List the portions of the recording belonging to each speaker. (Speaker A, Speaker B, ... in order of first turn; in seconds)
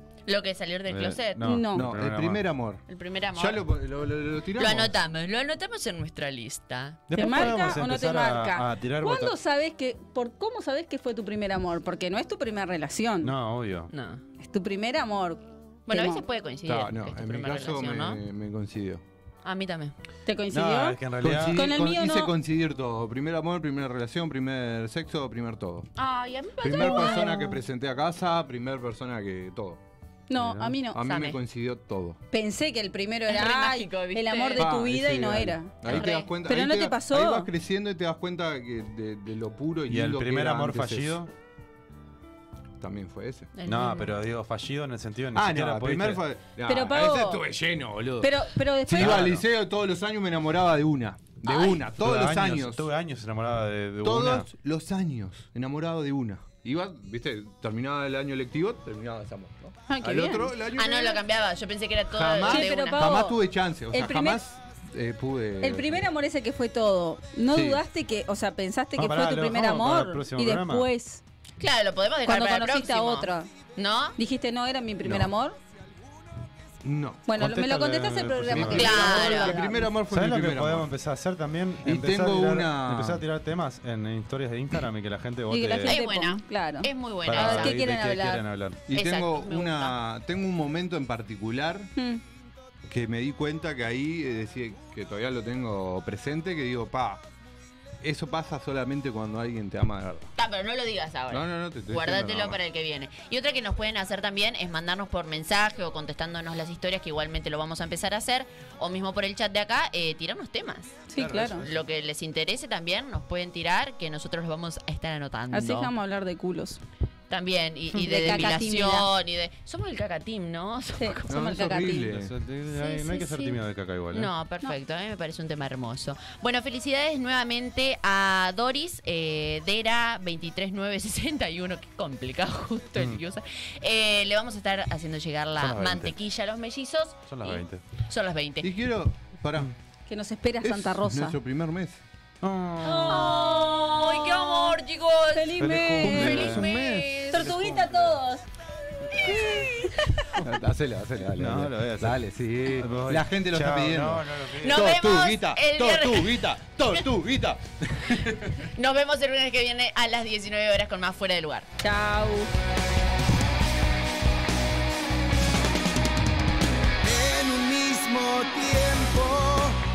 Speaker A: 0.3-1.6, 2.9-3.6, 4.5-7.7, 13.9-14.2, 15.9-18.2, 19.4-19.9, 26.0-27.5, 31.0-31.4, 33.3-34.7, 35.8-36.3, 43.5-44.2, 51.4-51.8, 60.7-63.1, 71.6-74.2, 78.7-79.6, 85.8-87.8, 88.9-90.0, 100.4-115.9, 117.3-121.4, 122.7-123.6, 124.1-138.7, 142.8-147.6, 149.1-150.3, 154.6-156.7, 158.6-161.7
Speaker B: 0.9-2.5, 7.1-9.4, 13.2-13.9, 20.5-21.8, 30.4-30.8, 39.9-41.3, 43.6-46.2, 48.9-49.5, 51.9-54.5, 69.0-70.9, 77.3-79.2, 80.0-85.9, 87.2-88.8, 111.2-111.8, 122.1-124.3, 133.0-133.2, 135.6-136.2, 137.3-137.8, 142.4-143.4, 145.6-146.7, 147.4-147.9, 151.4-154.9
Speaker C: 1.4-1.9, 7.1-13.4, 14.4-16.2, 20.3-22.3, 26.8-27.4, 30.3-31.0, 32.3-37.5, 46.6-47.5, 48.2-49.4, 59.9-60.5, 62.4-64.4, 65.6-71.2, 72.2-73.5, 74.2-75.6, 77.3-79.9, 85.5-88.4, 92.0-92.2, 111.1-111.6, 115.5-116.8, 117.9-119.1, 121.0-122.1, 140.1-141.4, 143.3-144.0, 145.3-146.5, 147.3-148.5, 149.1-150.4, 161.8-162.5
Speaker D: 1.7-5.0, 16.7-19.0, 21.2-25.9, 26.6-29.8, 30.9-32.2, 34.5-41.2, 42.8-43.5, 45.3-52.9, 54.0-61.2, 62.1-66.1, 67.5-67.8, 75.0-75.3, 76.8-77.3, 78.5-80.9, 81.8-83.2, 88.9-91.9, 92.9-97.2, 98.0-100.3, 101.3-102.6, 121.3-122.3, 138.6-139.7, 140.6-142.0, 145.7-147.8, 150.4-158.3
Speaker E: 167.0-169.8